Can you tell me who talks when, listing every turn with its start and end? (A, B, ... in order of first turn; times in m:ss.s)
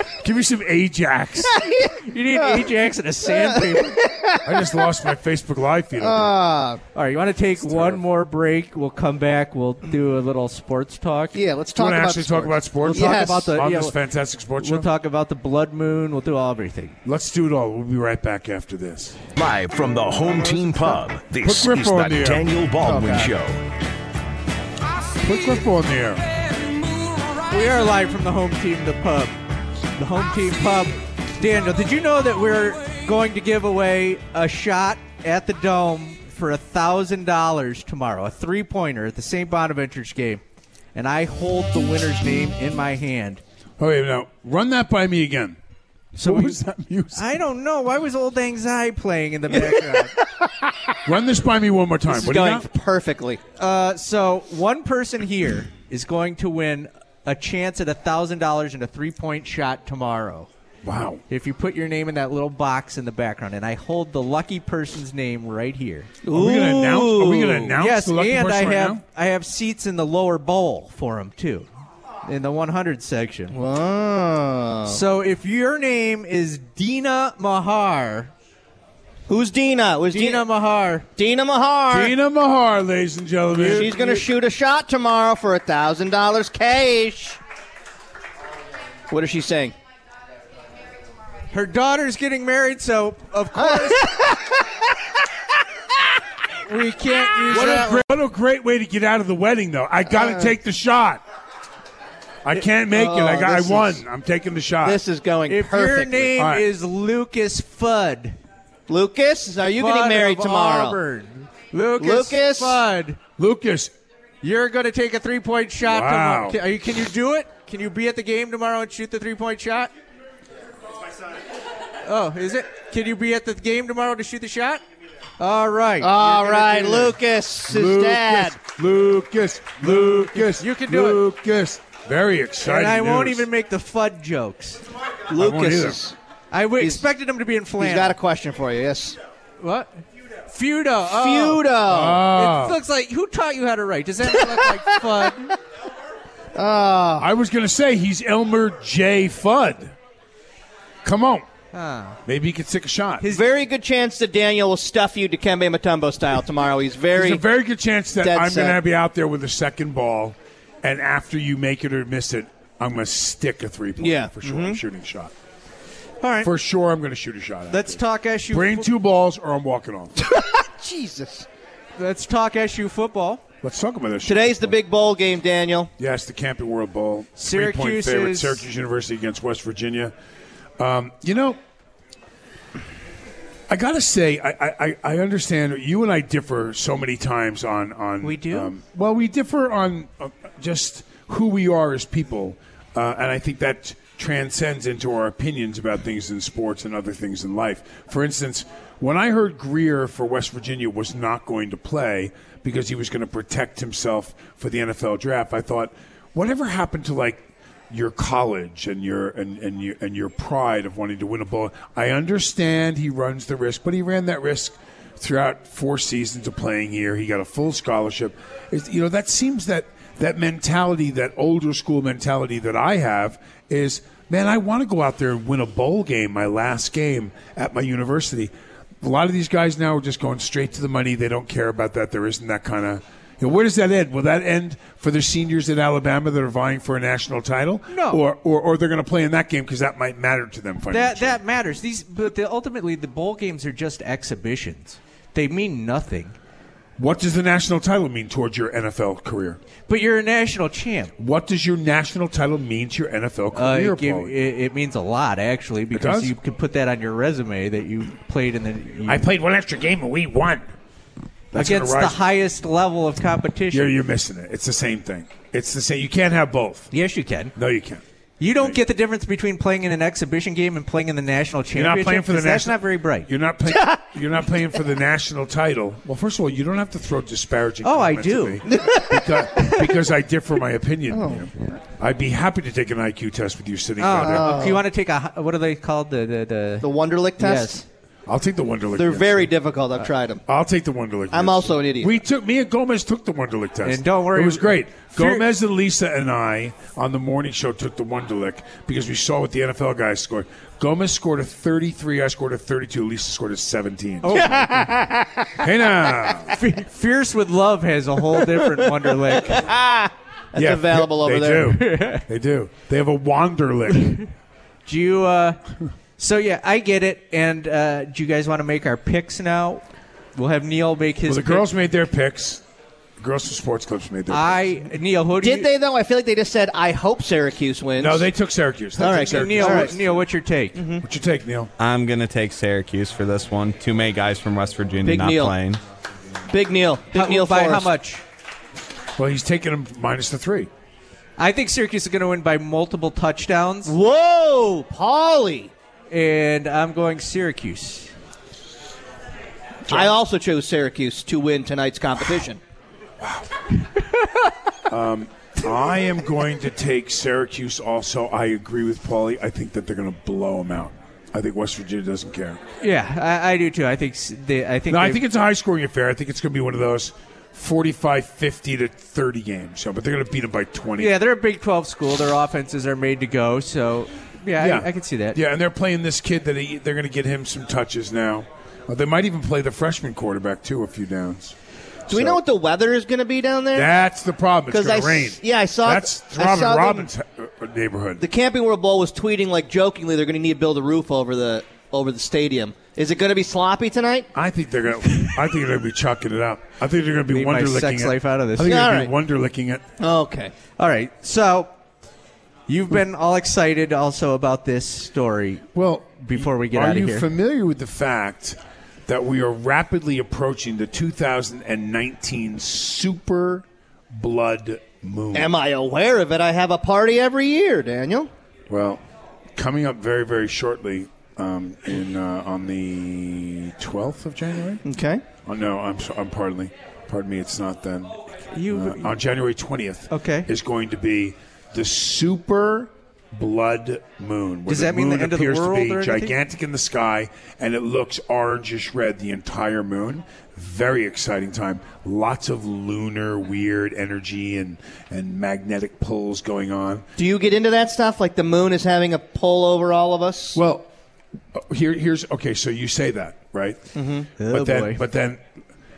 0:00.2-0:01.6 A
0:01.5-0:04.8 B
0:02.1-0:04.0 C
0:04.4-0:06.4 A
0:06.0-0:06.8 B
0:06.9-0:11.4 C
0:07.6-0:08.0 A
0:11.3-0:13.5 B
0:11.7-0:14.9 A
0:12.9-0:14.0 C
0:14.6-0:17.0 C
0:17.0-0:19.2 A
0:19.4-0:23.6 D
0:21.4-0:22.5 A
0:22.8-0:23.3 B
0:25.2-0:26.3 A
0:27.5-0:29.4 C
0:30.0-0:40.4 C
0:41.0-0:43.4 C
0:43.8-0:45.6 A
0:46.2-0:47.4 A
0:46.2-0:46.6 C
0:47.1-0:50.1 C
0:51.0-0:52.7 A
0:52.1-0:53.4 B
0:53.6-1:00.5 C
1:00.8-1:01.2 A
1:01.3-1:06.1 C
1:06.2-1:07.8 B
1:06.3-1:09.0 A
1:07.8-1:11.7 C
1:12.2-1:13.6 C
1:13.5-1:15.0 B
1:14.9-1:18.3 C
1:19.3-1:20.5 B
1:20.1-1:21.1 C
1:21.2-1:22.1 B
1:21.9-1:24.0 A
1:23.6-1:24.3 C
1:23.6-1:27.4 B
1:29.1-1:29.8 B
1:31.5-1:34.1 C
1:33.6-1:34.6 B
1:36.6-1:38.1 C
1:37.4-1:41.2 A
1:40.1-1:40.5 B
1:42.4-1:45.0 A
1:42.8-1:44.0 B
1:44.8-1:46.4 B
1:45.5-1:48.4 C
1:46.3-1:46.7 A
1:48.9-1:51.0 B
1:49.6-1:53.2 C
1:52.0-1:52.8 B
1:53.4-1:53.9 A
1:54.4-1:59.9 C
1:55.8-1:56.6 A
2:02.0-2:04.8 C
2:05.4-2:07.2 C
2:06.0-2:08.6 B
2:07.7-2:13.5 A
2:09.8-2:11.2 C
2:12.6-2:14.8 C
2:15.3-2:16.2 B
2:15.3-2:16.0 A
2:16.5-2:18.2 C
2:16.8-2:17.1 B
2:17.8-2:19.2 B
2:19.6-2:21.7 C
2:21.1-2:22.2 B
2:21.9-2:22.8 A
2:22.3-2:25.6 C
2:26.6-2:27.3 B
2:27.2-2:29.9 A
2:31.0-2:31.5 A
2:31.7-2:32.2 C
2:32.3-2:33.3 A
2:33.3-2:37.4 B
2:37.1-2:45.3 A
2:38.2-2:38.8 B
2:44.0-2:44.8 B
2:46.2-2:46.5 C
2:46.4-2:50.2 A
2:47.7-2:48.9 C
2:50.2-2:51.5 B
2:52.0-2:53.4 C
2:53.6-2:54.8 A
2:54.2-2:55.9 B
2:56.0-3:00.1 A
2:57.4-2:58.6 C
3:00.8-3:01.6 A
3:03.7-4:01.4 A
3:08.2-3:08.7 C
3:57.9-3:58.2 C
4:00.9-4:06.4 C
4:07.0-4:09.6 A
4:09.9-4:11.1 C
4:11.2-4:14.4 A
4:13.5-4:19.2 C
4:15.9-4:16.4 A
4:19.0-4:20.7 A
4:21.5-4:22.2 A
4:21.6-4:23.9 C
4:23.7-4:26.9 A
4:26.9-4:27.5 C
4:27.6-4:28.0 A
4:28.4-4:33.3 C
4:28.6-4:28.8 A
4:31.7-4:44.6 A
4:33.7-4:34.0 B
4:37.8-4:39.8 C
4:38.7-4:39.4 B
4:41.1-4:41.5 B
4:44.0-4:47.8 C
4:44.2-4:44.9 B
4:46.8-4:47.8 B
4:48.3-4:49.5 A
4:48.9-4:50.4 B
4:50.5-5:04.6 A
4:51.3-4:52.2 B
4:53.8-4:55.5 C
5:04.2-5:04.9 C
5:04.3-5:05.6 B
5:05.6-5:06.6 A
5:06.5-5:09.7 C
5:09.4-5:11.8 B
5:10.6-5:14.2 A
5:11.7-5:12.2 C
5:14.9-5:15.6 C
5:16.2-5:19.8 C
5:20.4-5:21.7 C
5:21.2-5:22.6 A
5:23.2-5:24.7 A
5:24.3-5:25.7 C
5:25.4-5:28.3 B
5:28.0-5:30.2 A
5:29.0-5:29.9 B
5:29.0-5:30.8 C
5:30.8-5:31.0 B
5:31.0-5:31.7 A
5:31.8-5:35.8 E
5:35.0-5:35.6 B
5:36.5-5:37.9 B
5:37.1-5:38.2 C
5:39.2-5:40.7 A
5:41.4-5:43.9 C
5:43.8-5:45.7 B
5:46.1-5:48.1 C
5:49.9-5:52.6 B
5:53.2-5:53.5 A
5:54.9-6:02.6 A
6:02.8-6:05.2 C
6:04.9-6:11.2 A
6:11.0-6:15.4 C
6:14.6-6:21.6 A
6:22.1-6:22.4 A
6:22.1-6:23.9 B
6:23.7-6:28.3 A
6:24.7-6:27.1 B
6:28.2-6:34.3 B
6:34.4-6:39.8 A
6:37.3-6:38.9 C
6:38.6-6:39.1 B
6:40.0-6:40.5 B
6:40.8-6:41.7 C
6:42.7-6:45.7 C
6:45.7-6:55.5 A
6:46.2-6:47.3 C
6:55.3-6:58.3 B
6:58.7-6:59.0 A
6:59.6-7:04.8 A
7:04.8-7:05.2 B
7:05.4-7:27.1 A
7:08.5-7:09.1 C
7:10.1-7:10.5 C
7:14.7-7:16.4 C
7:27.2-7:30.6 B
7:30.6-7:30.9 A
7:31.5-7:33.8 A
7:34.0-7:34.3 B
7:34.4-7:35.0 C
7:34.4-7:35.4 A